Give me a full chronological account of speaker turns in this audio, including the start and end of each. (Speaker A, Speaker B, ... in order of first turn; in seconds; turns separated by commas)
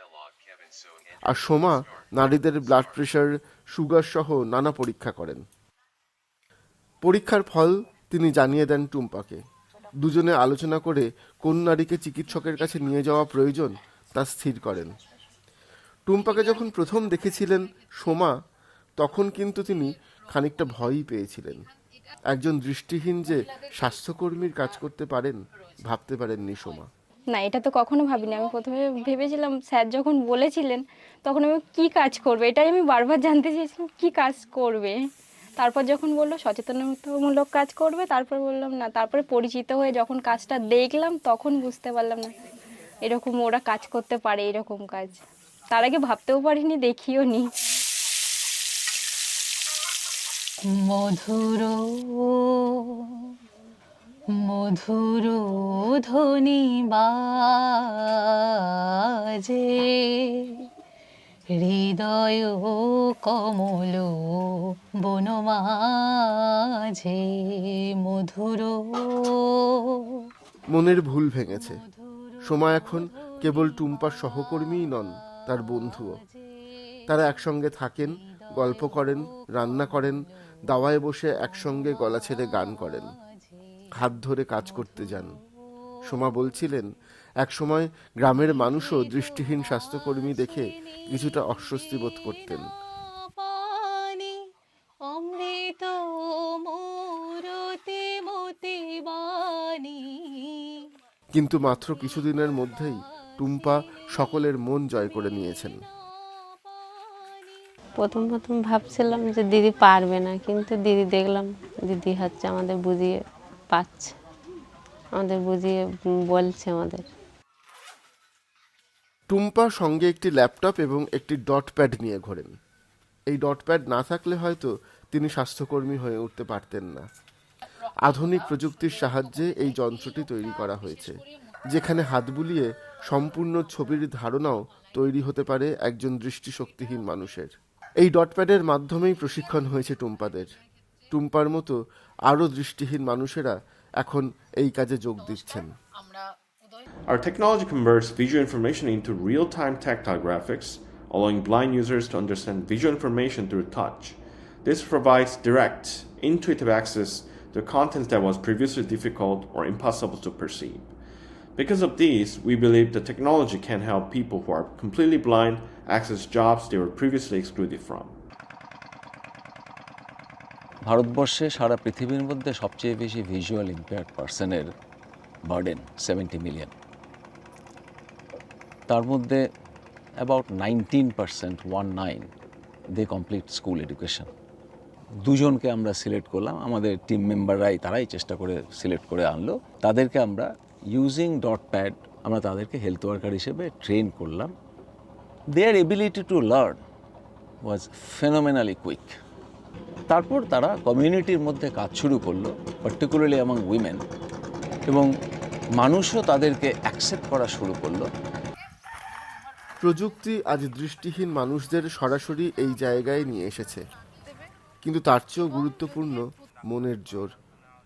Speaker A: 1.3-5.4, Speaker A: 7.0-9.4, Speaker A: 10.0-14.9, Speaker A: 16.1-18.3, Speaker A: 19.0-21.7, Speaker A: 22.3-26.9, Speaker B: 27.3-35.0, Speaker B: 35.6-42.3, Speaker B: 43.0-45.2, Speaker B: 45.7-47.5, Speaker C: 50.7-53.3, Speaker C: 54.4-60.7, Speaker C: 61.5-70.3, Speaker A: 70.7-71.8, Speaker C: 72.1-72.8, Speaker A: 72.4-76.2, Speaker C: 75.7-76.1, Speaker A: 77.1-83.1, Speaker C: 78.4-79.1, Speaker C: 81.5-83.8, Speaker A: 84.0-85.3, Speaker A: 86.1-92.7, Speaker C: 88.8-89.4, Speaker C: 93.2-94.5, Speaker C: 95.1-100.8, Speaker A: 101.3-105.8, Speaker D: 108.0-114.1, Speaker D: 115.1-117.0, Speaker A: 119.3-122.5, Speaker A: 123.3-127.0, Speaker A: 128.0-140.5, Speaker A: 141.1-141.8, Speaker A: 142.3-145.7, Speaker E: 147.1-160.9, Speaker E: 161.6-168.2, Speaker F: 170.8-174.7, Speaker F: 175.4-176.7, Speaker F: 178.9-179.4, Speaker F: 180.2-182.3, Speaker F: 182.9-184.3, Speaker F: 185.2-194.5, Speaker F: 195.5-196.8, Speaker F: 197.7-199.1, Speaker F: 200.1-204.0, Speaker F: 205.8-208.1, Speaker A: 209.8-213.8, Speaker A: 214.8-217.3